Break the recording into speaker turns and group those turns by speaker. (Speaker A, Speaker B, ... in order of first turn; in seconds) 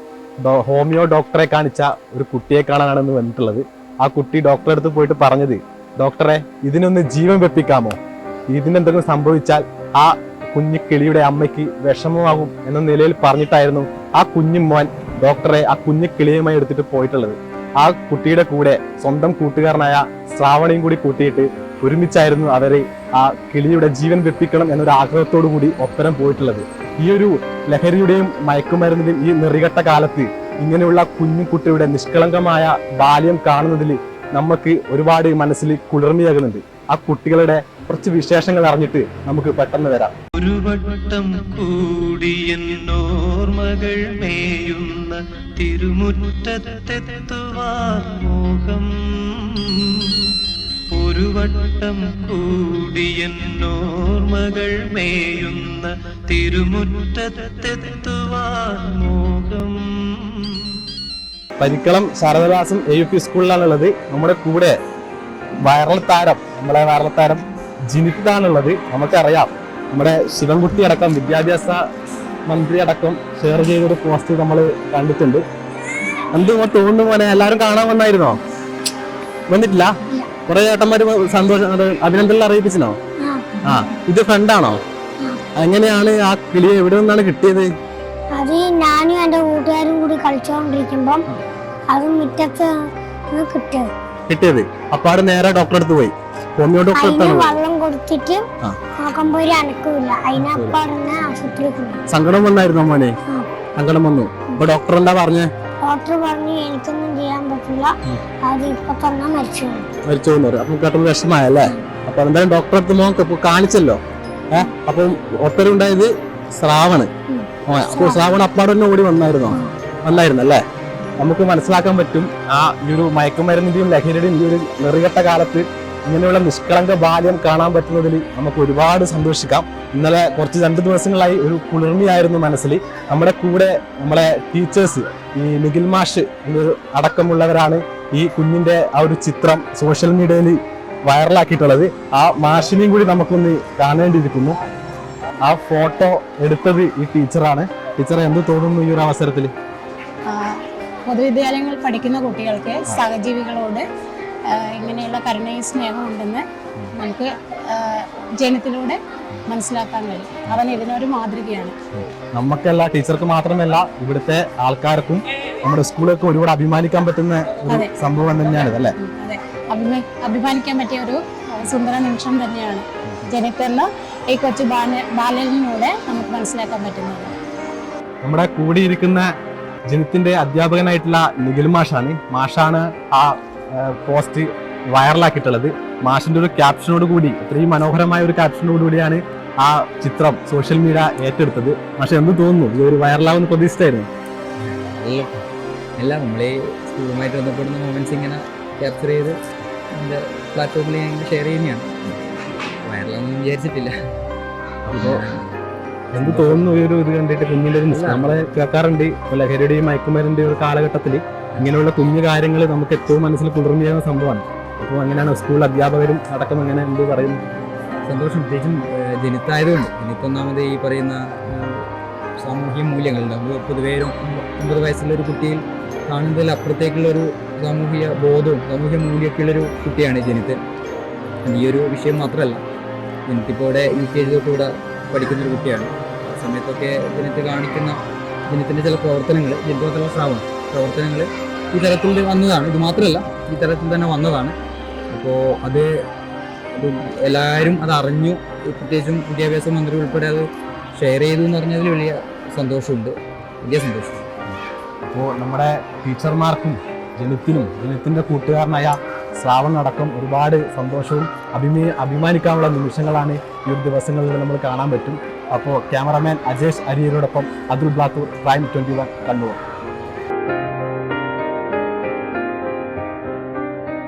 Speaker A: 0.4-8.0, 8.5-40.1, 61.6-64.8, 65.6-71.8, 72.5-75.4, 76.3-78.4, 79.5-83.0, 83.7-84.8, 85.5-87.7, 94.3-97.6, 100.3-100.8, 102.1-103.2, 103.8-105.5, 110.0-117.1, 117.7-120.6, 121.2-144.6, 145.4-149.5, 162.3-168.9, 178.2-179.3, 179.9-194.1, 204.8-205.2, 206.1-217.4, 255.0-269.6
Speaker B: 40.3-50.3, 50.9-60.8
Speaker C: 83.2-83.6, 88.3-91.2, 91.9-93.9, 96.9-98.5, 99.0-102.0, 105.8-109.9, 117.3-118.2
Speaker D: 150.3-153.8, 154.5-161.7, 169.0-177.3
Speaker E: 194.6-195.4, 196.0-199.4, 199.9-202.2, 202.8-203.9, 204.9-205.6, 206.2-206.8, 207.9-208.3, 218.0-221.8, 222.4-230.6, 231.4-232.6, 233.3-244.6, 245.1-245.9, 246.8-254.3